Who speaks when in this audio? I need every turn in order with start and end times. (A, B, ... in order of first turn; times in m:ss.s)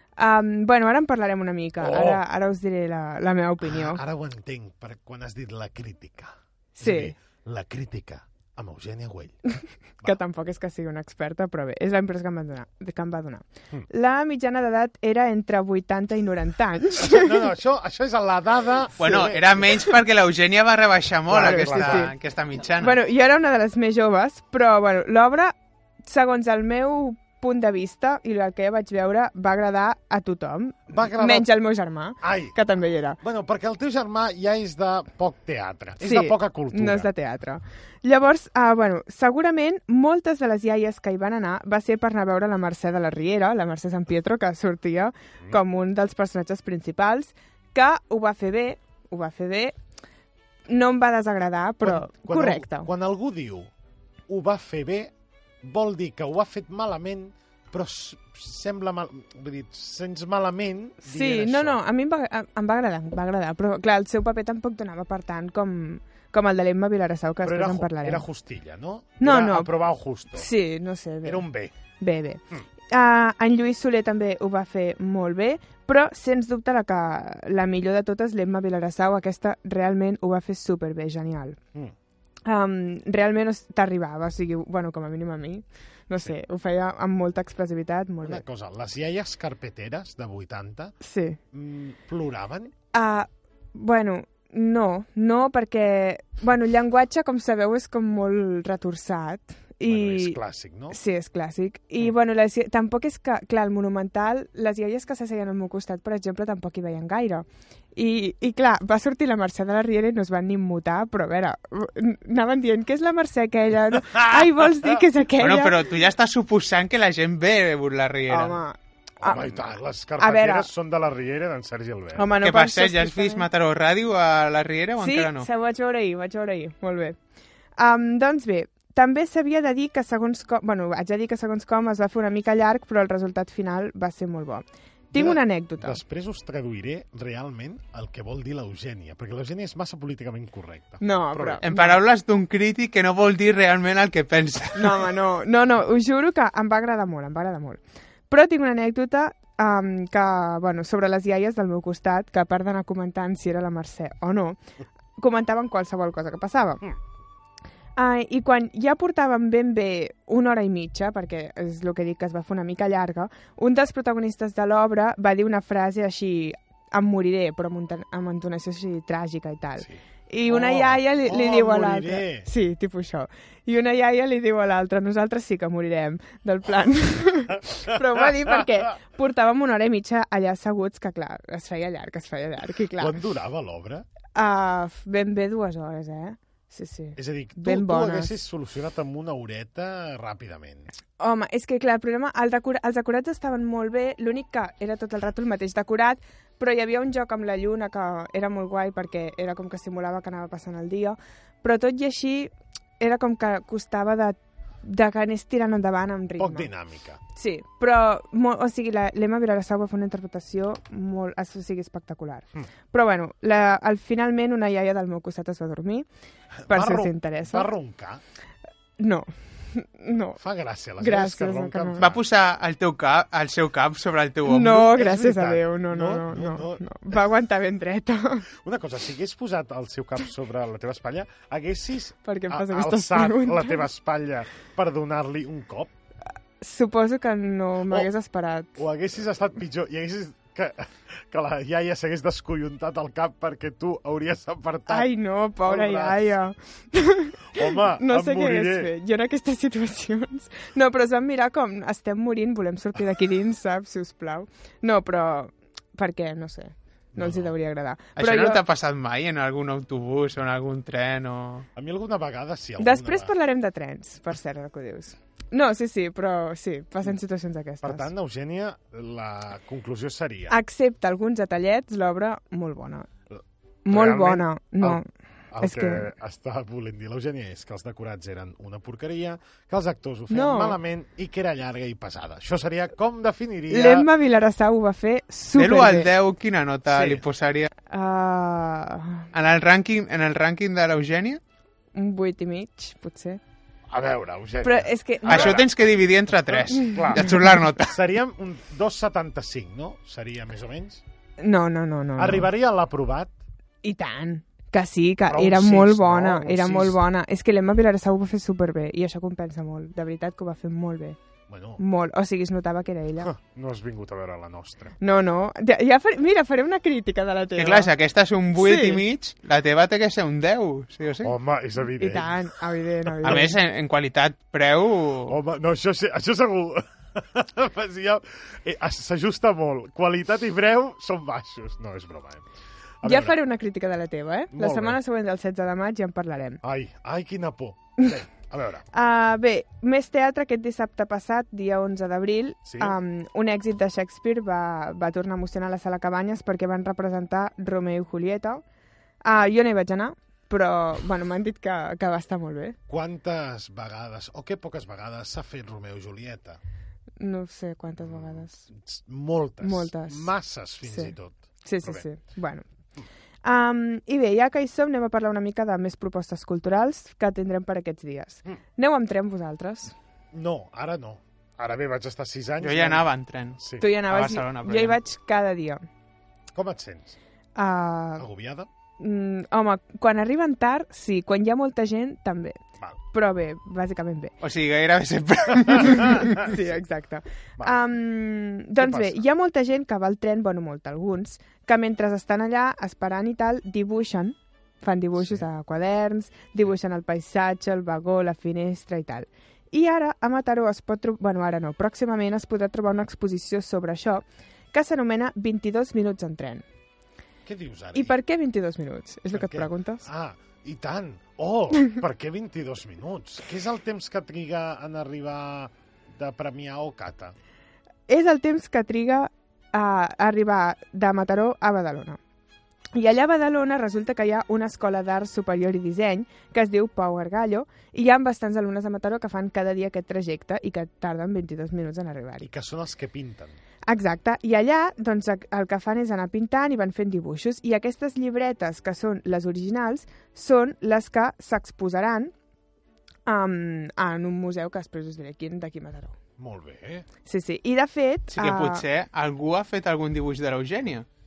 0:00.2-0:04.0 A
0:01.8-0:02.2 B
0:03.6-0:09.4 B
0:06.8-0:07.1 A
0:10.0-0:17.4 A
0:17.0-0:19.9 B
0:19.0-0:23.0 C
0:21.3-0:22.1 B
0:21.3-0:22.1 A
0:22.8-0:33.2 A
0:30.9-0:31.5 B
0:32.2-0:32.6 B
0:33.2-0:37.1 B
0:36.0-0:49.8 A
0:50.7-0:52.9 A
0:51.8-0:53.7 B
0:54.3-1:01.8 B
1:01.0-1:08.2 A
1:07.4-1:10.5 B
1:09.2-1:09.7 A
1:10.3-1:11.4 A
1:11.2-1:11.7 B
1:12.0-1:21.6 A
1:22.4-1:28.4 A
1:28.2-1:31.0 B
1:31.0-1:31.4 A
1:31.5-1:32.7 B
1:32.9-1:40.4 A
1:39.8-1:41.0 B
1:40.9-1:55.8 A
1:54.0-1:55.0 B
1:55.4-1:58.6 C
1:58.3-1:59.6 A
1:59.2-2:02.3 B
2:00.2-2:00.7 A
2:02.2-2:03.5 A
2:02.4-2:05.5 C
2:05.0-2:07.2 A
2:07.8-2:16.0 A
2:15.1-2:21.6 B
2:21.0-2:21.9 A
2:21.6-2:25.0 C
2:24.7-2:34.6 A
2:35.2-2:36.8 A
2:38.0-3:03.2 A
2:49.8-2:52.5 B
2:57.9-2:58.6 B
3:03.0-3:04.0 B
3:04.3-3:08.3 A
3:07.2-3:10.9 B
3:11.2-3:26.7 A
3:26.4-3:27.2 B
3:27.3-3:36.1 A
3:36.6-3:38.2 B
3:36.7-3:37.7 A
3:39.0-3:40.4 A
3:40.4-3:42.2 B
3:41.0-3:42.0 A
3:42.0-3:44.9 C
3:44.4-3:48.4 A
3:44.9-3:47.2 B
3:48.5-3:55.9 B
3:52.2-3:53.8 A
3:56.6-3:58.8 A
3:58.8-4:05.1 B
4:04.9-4:18.6 A
4:05.6-4:06.4 B
4:07.5-4:08.9 B
4:17.1-4:17.5 B
4:18.2-4:21.6 C
4:21.7-4:23.3 B
4:22.8-4:28.1 A
4:27.8-4:30.5 B
4:30.5-4:33.1 A
4:33.3-4:44.1 B
4:33.8-4:35.0 A
4:35.6-4:36.1 A
4:40.3-4:40.8 A
4:43.7-4:46.1 A
4:45.5-4:47.7 C
4:46.9-4:47.2 B
4:47.9-4:49.3 A
4:49.3-4:51.4 C
4:51.9-4:53.4 A
4:53.9-4:55.9 B
4:54.6-4:55.6 A
4:55.2-4:57.9 C
4:56.4-5:01.0 B
5:01.4-5:02.5 A
5:02.2-5:03.3 B
5:03.8-5:11.2 A
5:05.2-5:07.0 B
5:11.5-5:11.8 B
5:11.8-5:13.3 A
5:13.2-5:15.0 B
5:15.0-5:17.9 A
5:17.6-5:21.3 C
5:18.6-5:19.0 A
5:21.2-5:22.4 B
5:22.0-5:23.5 A
5:23.2-5:25.3 C
5:23.2-5:23.5 B
5:25.3-5:32.5 B
5:33.0-5:33.4 B
5:33.0-5:36.6 A
5:34.5-5:35.0 B
5:36.6-5:38.8 B
5:38.9-5:48.6 A
5:42.6-5:43.0 B
5:49.2-5:52.8 A
5:52.9-5:56.6 B
5:57.2-5:58.6 A
5:58.0-6:02.1 B
5:59.6-6:00.3 A
6:00.8-6:02.6 A
6:03.4-6:09.9 A
6:10.3-6:13.8 B
6:12.6-6:15.0 C
6:13.8-6:15.8 A
6:16.5-6:17.2 B
6:17.6-6:18.2 A
6:18.2-6:18.7 B
6:19.0-6:22.6 A
6:23.1-6:24.4 A
6:24.4-6:26.4 C
6:25.8-6:46.6 A
6:25.9-6:26.7 B
6:27.6-6:27.8 B
6:28.8-6:29.2 B
6:35.2-6:35.4 B
6:47.4-6:48.1 B
6:47.9-6:50.0 A
6:49.3-6:57.3 B
6:58.1-7:02.2 A
7:02.9-7:12.5 A
7:12.4-7:13.6 B
7:13.8-7:22.3 A
7:23.2-7:26.2 A
7:26.4-7:27.1 B
7:27.2-7:28.8 A
7:28.3-7:31.0 C